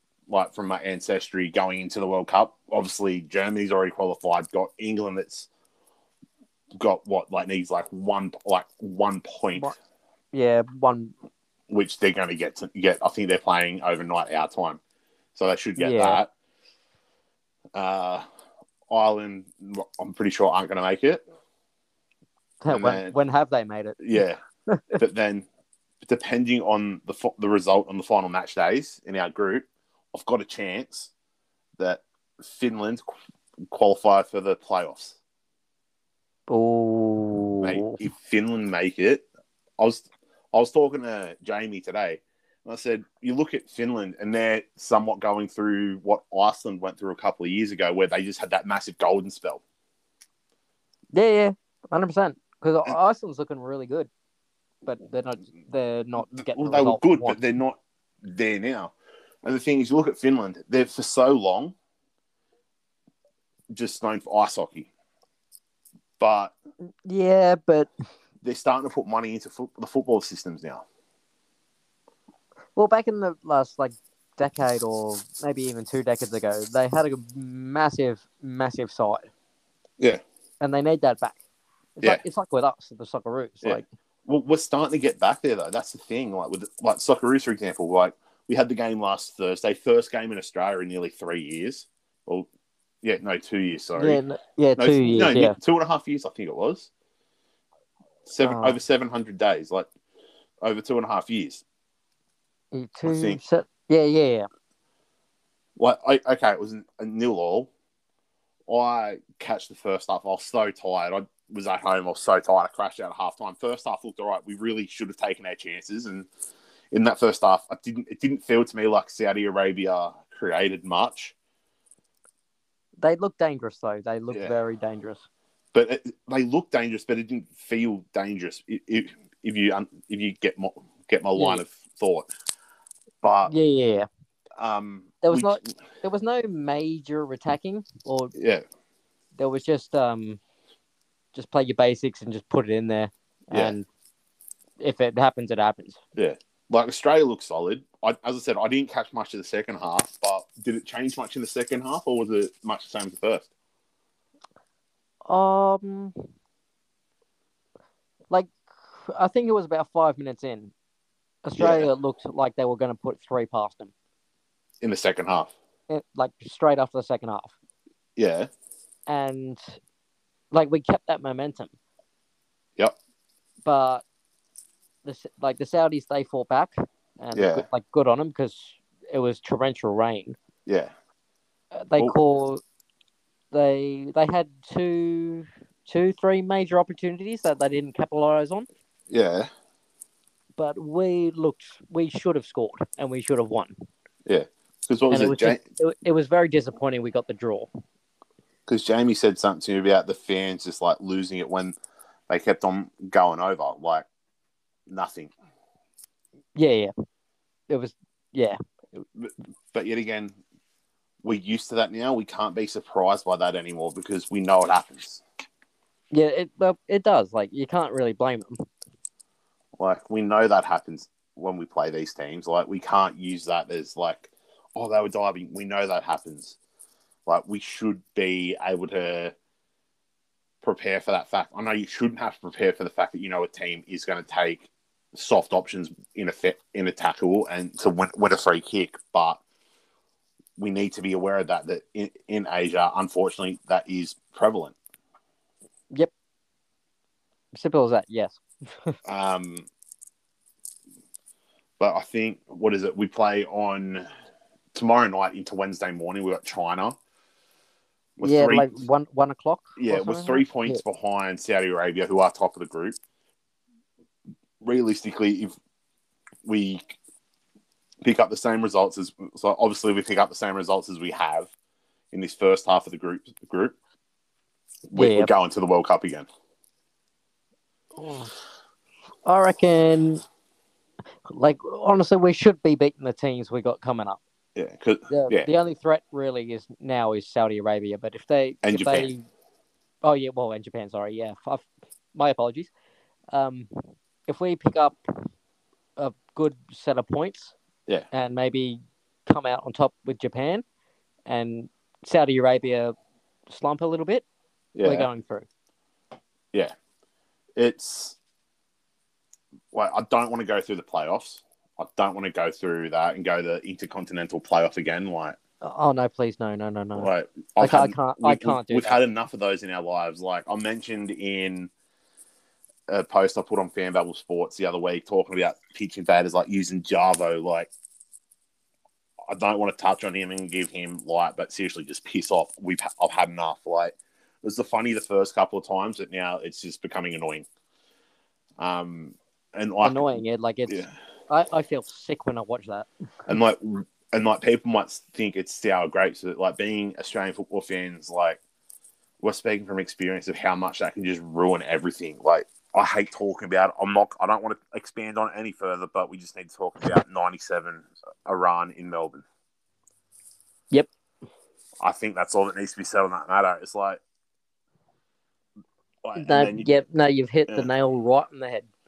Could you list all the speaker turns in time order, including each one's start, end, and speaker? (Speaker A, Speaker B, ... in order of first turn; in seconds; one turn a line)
Speaker A: 0.3-5.5
Speaker A: 6.8-9.7
Speaker B: 10.3-11.1
Speaker A: 11.7-14.8
Speaker A: 15.3-16.3
Speaker B: 15.8-16.2
Speaker A: 17.7-18.2
Speaker A: 18.9-21.2
Speaker B: 22.6-25.0
Speaker A: 22.7-23.1
Speaker A: 24.0-24.4
Speaker A: 25.0-25.4
Speaker A: 26.0-31.1
Speaker A: 31.8-33.0
Speaker A: 33.7-35.2
Speaker B: 36.5-38.0
Speaker A: 37.6-39.3
Speaker A: 39.8-49.6
Speaker B: 51.1-54.1
Speaker B: 54.9-57.4
Speaker A: 56.3-61.7
Speaker A: 63.7-64.9
Speaker A: 66.2-66.5
Speaker B: 67.0-67.9
Speaker A: 68.4-70.8
Speaker B: 72.8-79.3
Speaker B: 80.6-81.4
Speaker B: 82.0-83.8
Speaker A: 83.6-92.5
Speaker A: 93.0-94.2
Speaker B: 94.0-95.5
Speaker A: 94.8-96.9
Speaker A: 98.3-99.9
Speaker B: 98.4-98.8
Speaker A: 100.6-101.6
Speaker B: 102.7-104.5
Speaker A: 103.0-103.4
Speaker A: 105.8-107.7
Speaker A: 108.7-116.3
Speaker A: 116.9-121.3
Speaker B: 123.0-125.2
Speaker A: 124.3-124.5
Speaker A: 125.7-132.3
Speaker B: 131.3-131.6
Speaker A: 133.2-133.5
Speaker B: 133.4-134.1
Speaker A: 134.6-135.6
Speaker B: 135.2-138.3
Speaker A: 138.3-138.6
Speaker B: 139.3-140.4
Speaker B: 141.3-143.8
Speaker A: 143.5-143.8
Speaker B: 144.8-146.0
Speaker A: 146.1-153.5
Speaker B: 155.3-156.1
Speaker B: 158.3-160.7
Speaker B: 161.4-163.9
Speaker A: 161.6-161.9
Speaker A: 164.8-165.5
Speaker B: 165.9-167.5
Speaker A: 168.2-168.5
Speaker B: 169.1-169.8
Speaker B: 170.5-171.7
Speaker B: 173.6-174.0
Speaker B: 175.0-180.4
Speaker A: 177.3-177.7
Speaker A: 180.7-180.9
Speaker B: 181.7-182.6
Speaker B: 183.5-188.7
Speaker A: 189.1-189.5
Speaker B: 190.6-193.8
Speaker A: 194.2-195.6
Speaker B: 195.1-197.7
Speaker A: 198.7-201.8
Speaker A: 202.3-204.1
Speaker A: 204.9-205.3
Speaker B: 206.6-206.9
Speaker B: 207.7-208.6
Speaker A: 209.1-210.4
Speaker A: 211.2-215.2
Speaker B: 216.1-218.6
Speaker A: 219.8-226.6
Speaker A: 227.3-229.3
Speaker A: 230.6-239.4
Speaker A: 240.6-244.7
Speaker B: 247.5-249.0
Speaker A: 249.1-249.7
Speaker A: 251.8-254.0
Speaker A: 254.7-256.9
Speaker A: 258.2-258.7
Speaker B: 258.2-260.8
Speaker A: 259.8-263.0
Speaker A: 264.6-265.6
Speaker A: 266.4-267.0
Speaker A: 268.0-271.5
Speaker A: 272.1-273.7
Speaker A: 274.9-276.3
Speaker B: 274.9-275.3
Speaker B: 277.9-278.3
Speaker B: 279.2-280.2
Speaker B: 281.2-284.2
Speaker A: 284.6-285.5
Speaker B: 285.1-289.2
Speaker A: 288.6-289.1
Speaker B: 290.0-292.7
Speaker B: 293.3-293.7
Speaker B: 294.3-295.3
Speaker B: 296.0-297.5
Speaker B: 298.1-300.6
Speaker B: 301.3-302.9
Speaker B: 303.5-304.2
Speaker A: 304.7-305.1
Speaker B: 304.8-305.5
Speaker A: 307.6-308.2
Speaker A: 309.7-315.4
Speaker B: 315.6-319.0
Speaker A: 317.0-321.7
Speaker A: 322.9-327.7
Speaker A: 329.3-337.4
Speaker A: 338.6-340.1
Speaker B: 339.8-342.9
Speaker A: 343.3-348.4
Speaker A: 349.2-359.2
Speaker A: 361.8-364.0
Speaker A: 366.0-366.7
Speaker B: 366.1-368.7